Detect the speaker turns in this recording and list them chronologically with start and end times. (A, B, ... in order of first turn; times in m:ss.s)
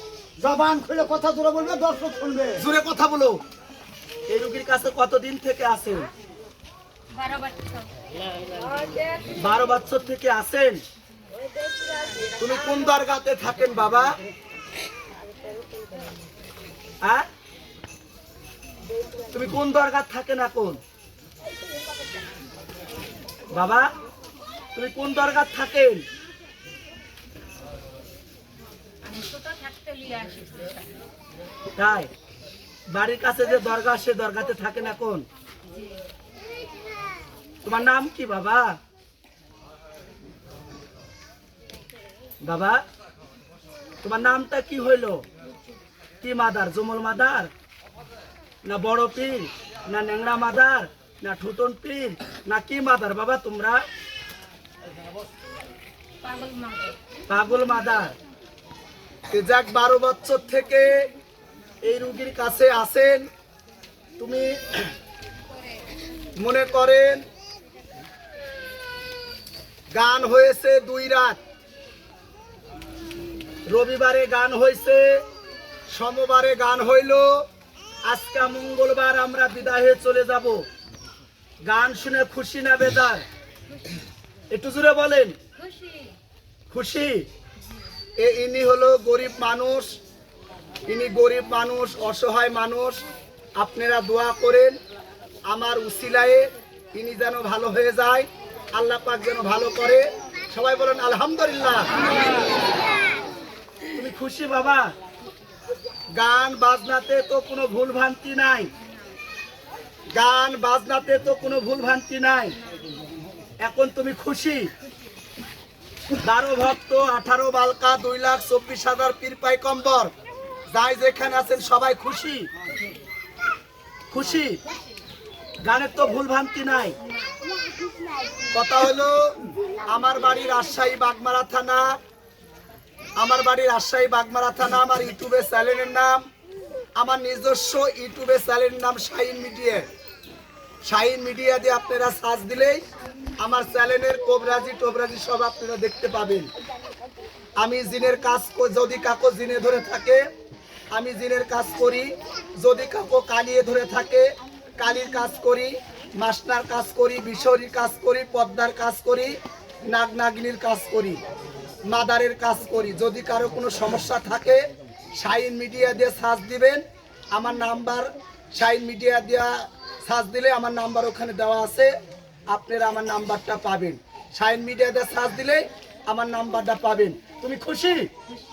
0:00.4-0:02.6 A
0:02.6-0:03.4 B
0:04.3-0:06.1 B
0:07.1-0:07.9 C
0:09.3-0:10.8 B
0:12.4-0:14.2 B
0:17.0-0:17.3 B
0:19.3-0:20.8 B
0:23.5-0:23.9 B
0:24.8-0:26.0 B
0:29.0-0:30.9 C
0:31.8-0:32.1 B
0:32.9-0:35.3 B
0:37.6-0:38.8 B
0:42.4-0:42.8 B
0:44.0-0:45.2 B
0:46.2-0:47.5 B
0:48.6-0:53.8 B
0:56.2-0:57.0 C
0:57.3-0:58.2 B
0:59.3-1:01.1 B
1:01.8-1:03.3 B
1:04.2-1:04.9 B
1:06.4-1:07.2 B
1:09.9-1:11.4 B
1:13.7-1:15.2 B
1:15.9-1:17.4 B
1:18.0-1:20.7 B
1:21.6-1:23.2 B
1:24.5-1:25.4 B
1:25.6-1:26.2 C
1:26.7-1:27.3 B
1:28.2-1:30.0 B
1:30.9-1:33.0 B
1:33.6-1:34.8 B
1:35.5-1:42.2 B
1:43.9-1:44.9 B
1:46.2-1:48.7 B
1:50.1-1:52.6 B
1:53.6-1:54.7 B
1:56.2-2:00.1 B
2:00.7-2:02.5 B
2:04.1-2:04.6 B
2:05.6-2:07.0 B
2:08.5-2:12.0 B
2:13.2-2:16.2 B
2:17.0-2:19.9 B
2:20.8-2:22.8 B
2:23.4-2:26.5 B
2:27.6-2:30.2 B
2:30.9-2:41.2 B
2:41.9-2:44.6 B
2:45.2-2:51.9 B
2:52.5-2:58.1 B